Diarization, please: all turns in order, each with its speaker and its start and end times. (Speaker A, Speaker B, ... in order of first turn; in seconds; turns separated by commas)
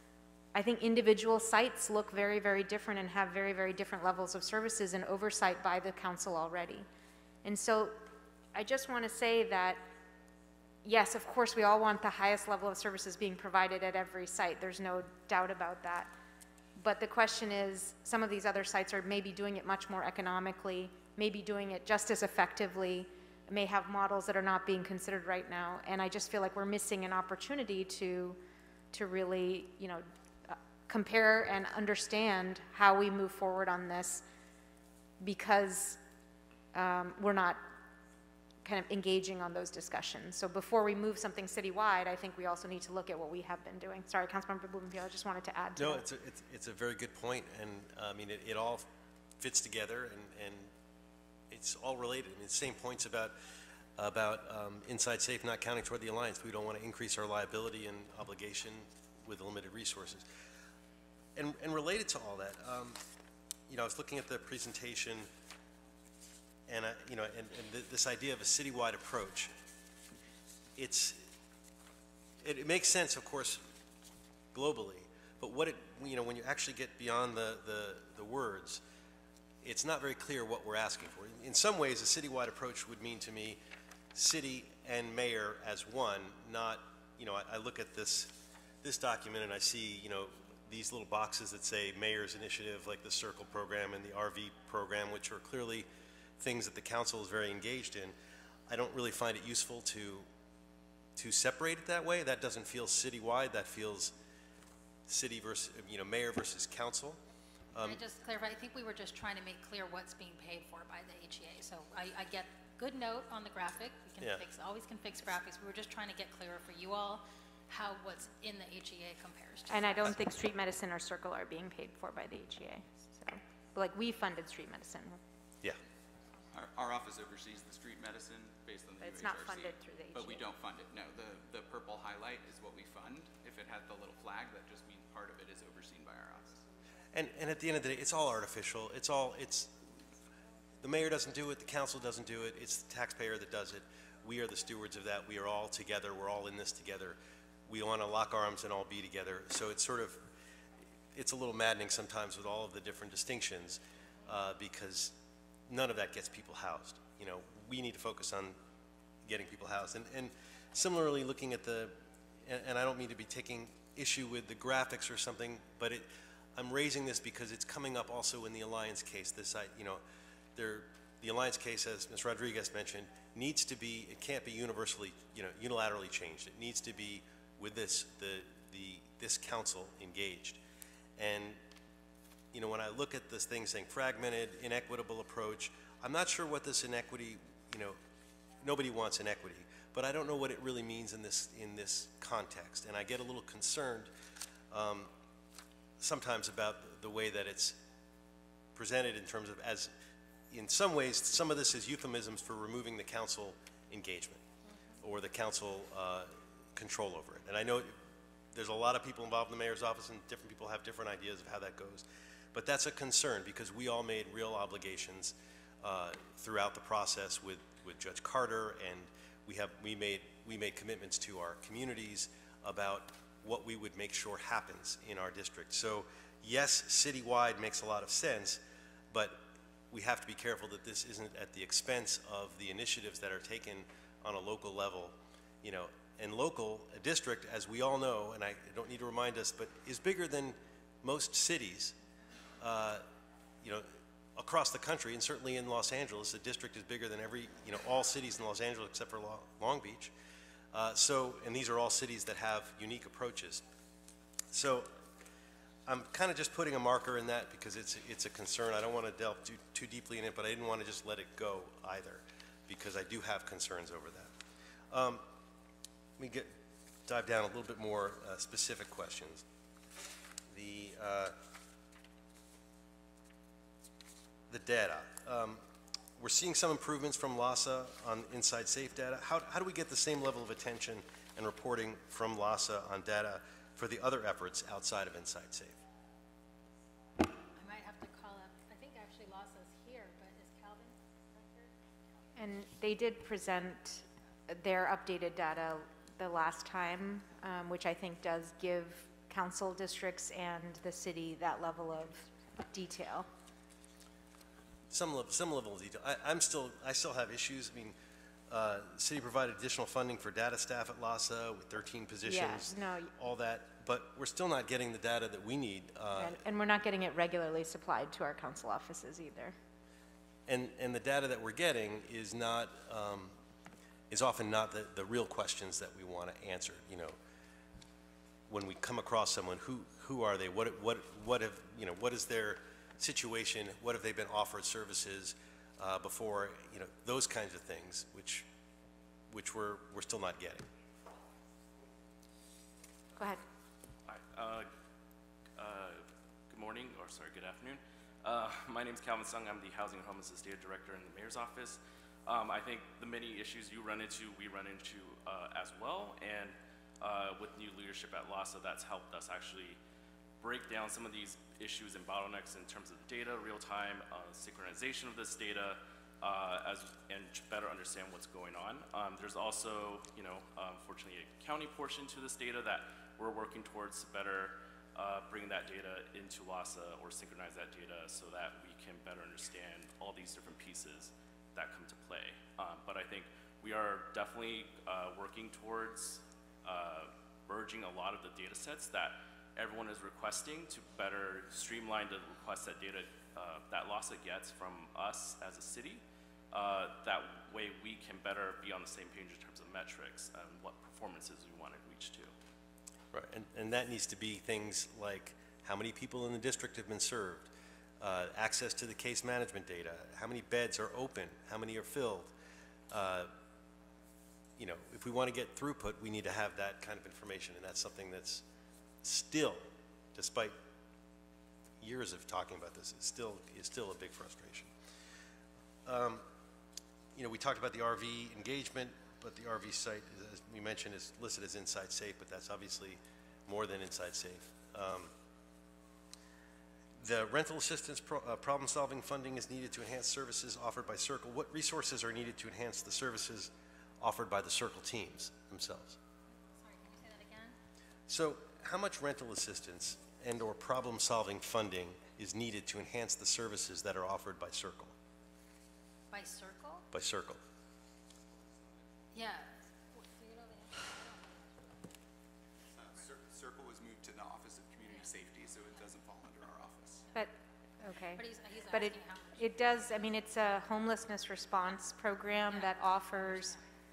Speaker A: 0.5-6.9, Speaker A: 7.4-8.0, Speaker A: 8.6-9.8, Speaker A: 10.8-16.1, Speaker A: 16.8-28.4, Speaker A: 28.9-34.2, Speaker A: 35.2-36.0, Speaker A: 36.7-37.6, Speaker A: 38.6-46.0, Speaker B: 45.8-48.9, Speaker B: 49.4-50.7, Speaker B: 51.5-53.3, Speaker B: 54.0-60.2, Speaker B: 61.4-63.0, Speaker B: 63.7-65.3, Speaker B: 66.7-69.5, Speaker B: 70.8-71.3, Speaker B: 72.4-73.6, Speaker B: 74.5-78.8, Speaker B: 79.6-83.6, Speaker B: 84.1-95.9, Speaker B: 96.4-98.2, Speaker B: 98.7-100.3, Speaker B: 101.2-104.1, Speaker B: 105.1-107.2, Speaker B: 107.7-108.0, Speaker C: 107.8-120.2, Speaker A: 119.7-125.2, Speaker D: 126.5-136.6, Speaker A: 129.0-130.4, Speaker B: 137.1-139.8, Speaker B: 140.8-150.3, Speaker B: 151.2-155.2, Speaker B: 155.7-158.6, Speaker B: 159.3-170.0, Speaker B: 170.6-180.6, Speaker B: 181.2-181.6, Speaker B: 182.5-188.0, Speaker B: 188.6-194.1, Speaker B: 194.7-195.1, Speaker B: 196.0-197.8, Speaker B: 198.7-199.9, Speaker B: 200.5-204.5, Speaker B: 205.0-208.0, Speaker B: 208.5-228.6, Speaker B: 229.1-241.9, Speaker B: 242.6-243.0, Speaker B: 243.6-250.1, Speaker B: 250.7-253.6, Speaker B: 254.5-254.9, Speaker B: 255.9-264.3, Speaker B: 264.9-265.2, Speaker B: 266.2-266.5, Speaker B: 267.1-269.4, Speaker B: 270.5-271.4, Speaker B: 274.5-275.6, Speaker B: 276.2-285.8, Speaker C: 287.6-291.7, Speaker A: 292.4-303.3, Speaker B: 304.9-307.9, Speaker B: 308.5-316.4, Speaker A: 312.2-313.1, Speaker A: 316.1-319.6, Speaker B: 320.5-323.4, Speaker B: 324.1-327.2, Speaker B: 328.5-338.4, Speaker B: 339.3-340.7, Speaker A: 343.2-343.4, Speaker E: 344.1-344.7, Speaker E: 345.6-359.8, Speaker E: 360.4-402.3, Speaker B: 403.1-412.3, Speaker B: 412.9-413.3, Speaker B: 414.6-418.4, Speaker B: 419.0-420.6, Speaker B: 421.8-424.7, Speaker B: 425.9-426.2, Speaker B: 427.1-435.1, Speaker B: 437.0-446.0, Speaker C: 446.4-447.6, Speaker B: 448.1-454.9, Speaker C: 456.1-456.9, Speaker B: 456.9-457.4, Speaker D: 458.6-458.8, Speaker C: 459.1-461.6, Speaker D: 462.7-467.0, Speaker A: 467.8-473.6, Speaker C: 468.1-469.4, Speaker C: 472.4-473.6